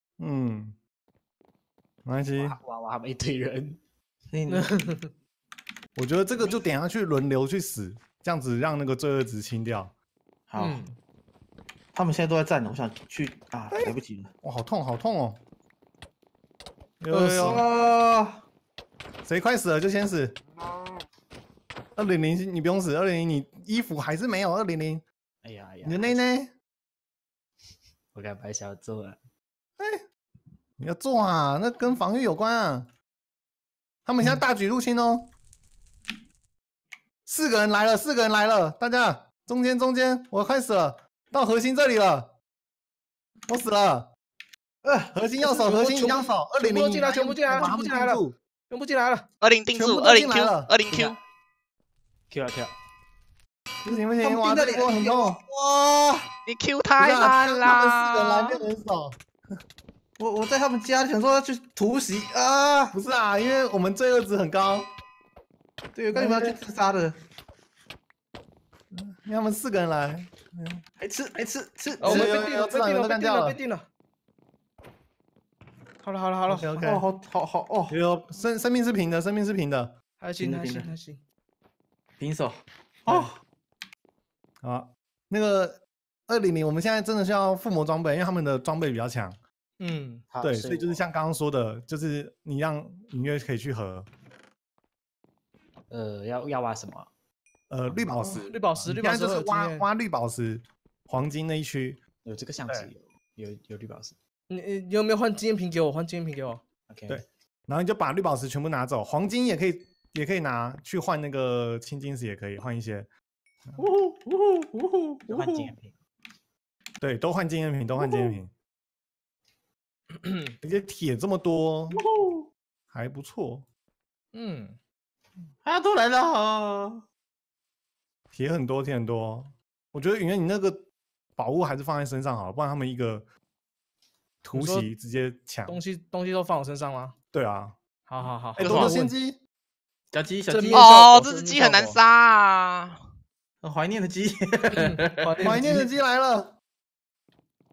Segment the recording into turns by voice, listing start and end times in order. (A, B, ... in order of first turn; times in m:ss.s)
0:00.2-0:00.8 A
0:02.1-0:02.6 A
0:02.3-0:03.8 B
0:04.3-0:04.7 C
0:04.6-0:05.1 D
0:06.0-0:09.9 A
0:10.5-0:10.8 C
0:10.6-0:11.0 D
0:11.9-0:14.3 C
0:13.7-0:15.4 A
0:17.0-0:17.6 A
0:17.1-0:17.4 D
0:17.4-0:18.4 C
0:19.2-0:20.4 A
0:22.0-0:25.0 A
0:25.4-0:26.2 B
0:25.8-0:26.5 A
0:28.1-0:29.2 B
0:29.8-0:30.0 A
0:30.8-0:32.9 A
0:34.1-0:35.3 A
0:37.3-0:42.3 A
0:43.5-0:44.1 A
0:44.8-0:45.2 C
0:45.1-0:48.4 A
0:45.9-0:49.3 D
0:49.4-0:51.2 E
0:49.7-0:50.7 A
0:50.9-0:51.2 B
0:52.3-0:52.7 B
0:53.8-0:56.3 C
0:53.9-0:55.4 A
0:56.5-0:58.6 E
0:57.0-0:59.2 A
1:00.2-1:03.0 C
1:02.9-1:04.9 A
1:06.0-1:07.2 C
1:06.1-1:06.6 A
1:08.9-1:10.8 A
1:11.0-1:12.4 C
1:12.0-1:13.6 A
1:12.2-1:13.9 D
1:16.0-1:16.7 D
1:16.5-1:17.0 A
1:16.8-1:18.0 C
1:17.9-1:19.9 A
1:20.2-1:21.2 D
1:20.4-1:20.9 C
1:22.2-1:23.4 C
1:24.6-1:29.4 A
1:29.8-1:30.3 D
1:30.3-1:31.0 B
1:30.4-1:34.1 A
1:35.9-1:37.1 B
1:37.7-1:42.0 A
1:37.9-1:38.3 B
1:38.4-1:39.9 D
1:42.2-1:44.2 B
1:44.5-1:46.6 D
1:46.9-1:47.2 B
1:47.1-1:53.1 A
1:53.8-1:55.7 C
1:55.3-1:56.0 B
1:57.0-1:58.5 A
1:58.0-1:58.3 C
2:00.1-2:00.6 D
2:00.6-2:02.0 A
2:01.9-2:02.5 C
2:02.9-2:03.7 A
2:04.3-2:04.8 D
2:05.6-2:07.0 C
2:08.3-2:10.9 A
2:11.4-2:13.3 A
2:14.4-2:15.8 A
2:14.5-2:14.9 D
2:15.7-2:17.2 D
2:17.3-2:17.8 A
2:18.1-2:18.9 D
2:18.6-2:19.4 A
2:18.6-2:19.0 E
2:20.1-2:21.0 C
2:20.6-2:22.0 D
2:20.7-2:23.0 E
2:23.6-2:25.8 C
2:24.9-2:25.8 D
2:25.4-2:26.5 A